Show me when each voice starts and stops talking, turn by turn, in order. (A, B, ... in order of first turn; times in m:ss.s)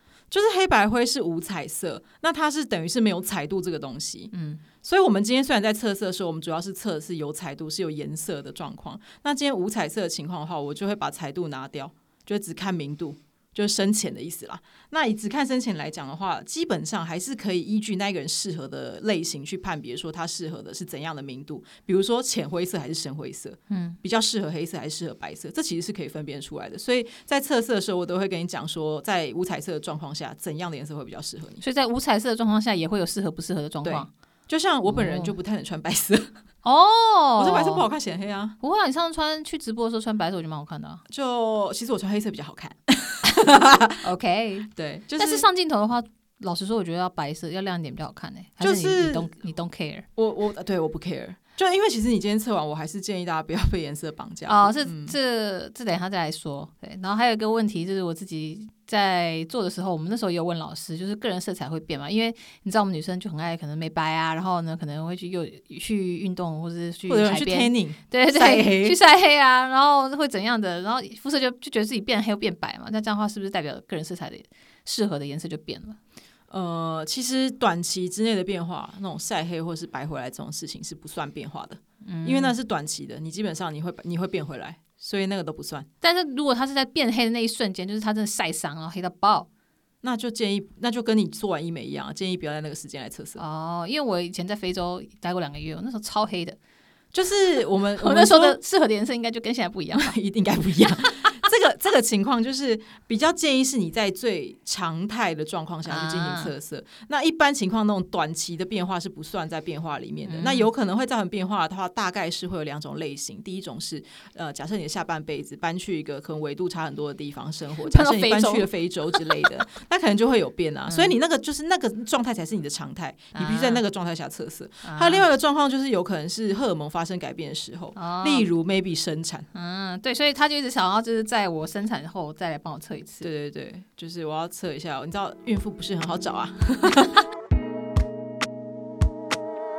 0:00.3-0:04.3 A
0:04.3-0:04.6 B
0:04.8-0:31.6 A
0:23.7-0:24.0 B
0:31.6-0:34.1 B
0:33.8-0:36.3 A
0:34.9-0:35.3 B
0:36.6-0:37.9 B
0:37.4-0:38.6 A
0:38.6-0:41.0 B
0:41.1-0:44.1 A
0:44.0-0:50.1 B
0:44.8-0:45.5 A
0:48.6-0:49.3 A
0:50.2-0:55.2 A
0:54.5-1:16.0 B
1:07.1-1:09.0 A
1:16.5-1:25.9 A
1:22.0-1:22.6 B
1:26.0-1:29.5 B
1:30.0-1:33.4 A
1:33.4-1:36.6 B
1:37.1-1:38.6 A
1:38.0-1:40.1 B
1:39.9-2:09.5 A
1:41.1-1:41.4 B
1:45.9-1:46.5 B
1:50.2-1:50.7 B
1:57.8-1:59.5 B
2:00.9-2:01.1 B
2:03.4-2:03.8 B
2:04.8-2:05.3 B
2:08.0-2:08.4 B
2:09.5-2:13.3 B
2:13.2-2:17.2 A